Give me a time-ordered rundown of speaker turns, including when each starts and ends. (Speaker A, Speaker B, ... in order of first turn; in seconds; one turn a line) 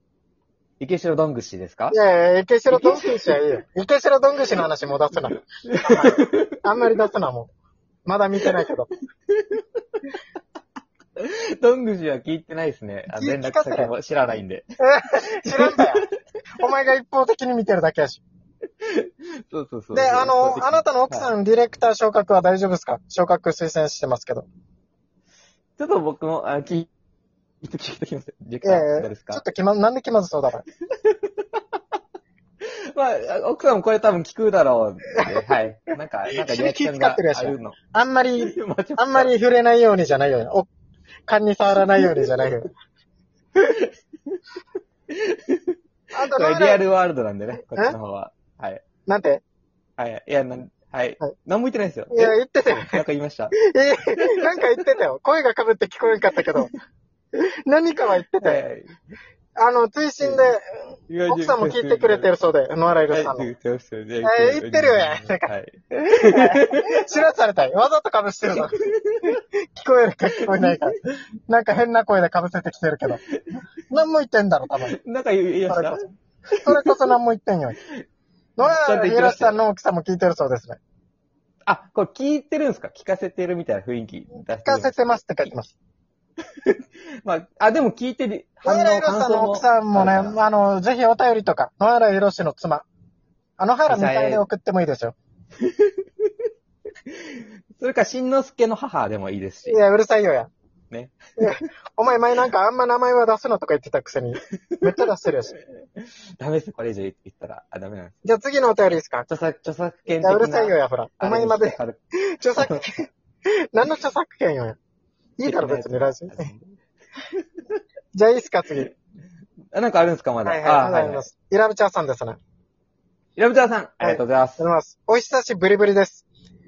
Speaker A: 0.8-2.0
Speaker B: 1.9-7.5
Speaker A: 2.7-3.4
Speaker A: 5.6-6.6
Speaker B: 8.1-8.9
Speaker A: 9.3-9.7
Speaker A: 11.2-14.7
Speaker B: 13.1-13.9
Speaker B: 14.8-16.1
Speaker A: 15.5-16.1
Speaker B: 16.6-18.2
Speaker A: 18.8-21.3
Speaker B: 19.9-24.5
Speaker A: 25.8-26.9
Speaker A: 27.6-29.4
Speaker B: 28.6-30.6
Speaker A: 30.9-31.8
Speaker A: 32.6-37.8
Speaker B: 36.3-40.7
Speaker A: 38.4-39.3
Speaker B: 41.3-42.7
Speaker A: 43.6-44.4
Speaker A: 45.1-48.8
Speaker B: 46.1-46.8
Speaker B: 49.1-49.4
Speaker A: 50.0-53.5
Speaker B: 52.1-53.0
Speaker B: 53.6-56.7
Speaker B: 57.7-58.6
Speaker A: 58.4-59.0
Speaker B: 59.6-60.7
Speaker A: 60.2-60.5
Speaker A: 61.1-62.3
Speaker B: 61.3-63.5
Speaker A: 63.1-67.0
Speaker B: 64.2-68.8
Speaker A: 68.5-69.4
Speaker B: 69.7-73.2
Speaker A: 73.3-73.6
Speaker B: 73.9-75.0
Speaker A: 74.9-76.9
Speaker B: 75.7-76.1
Speaker B: 76.6-77.8
Speaker B: 78.6-80.8
Speaker A: 78.6-79.6
Speaker A: 81.7-84.9
Speaker B: 84.6-85.7
Speaker A: 86.6-90.3
Speaker B: 88.7-92.9
Speaker B: 93.6-95.2
Speaker A: 93.9-94.4
Speaker A: 95.6-96.0
Speaker A: 97.1-99.8
Speaker B: 99.7-100.5
Speaker A: 100.9-101.7
Speaker B: 101.4-105.5
Speaker A: 106.0-108.2
Speaker B: 108.2-109.3
Speaker A: 109.3-112.0
Speaker B: 110.2-113.1
Speaker A: 112.5-112.9
Speaker B: 113.7-114.8
Speaker B: 115.4-116.5
Speaker A: 115.5-116.8
Speaker B: 118.2-118.9
Speaker A: 119.7-121.3
Speaker B: 120.5-122.4
Speaker A: 123.4-124.6
Speaker B: 124.0-126.2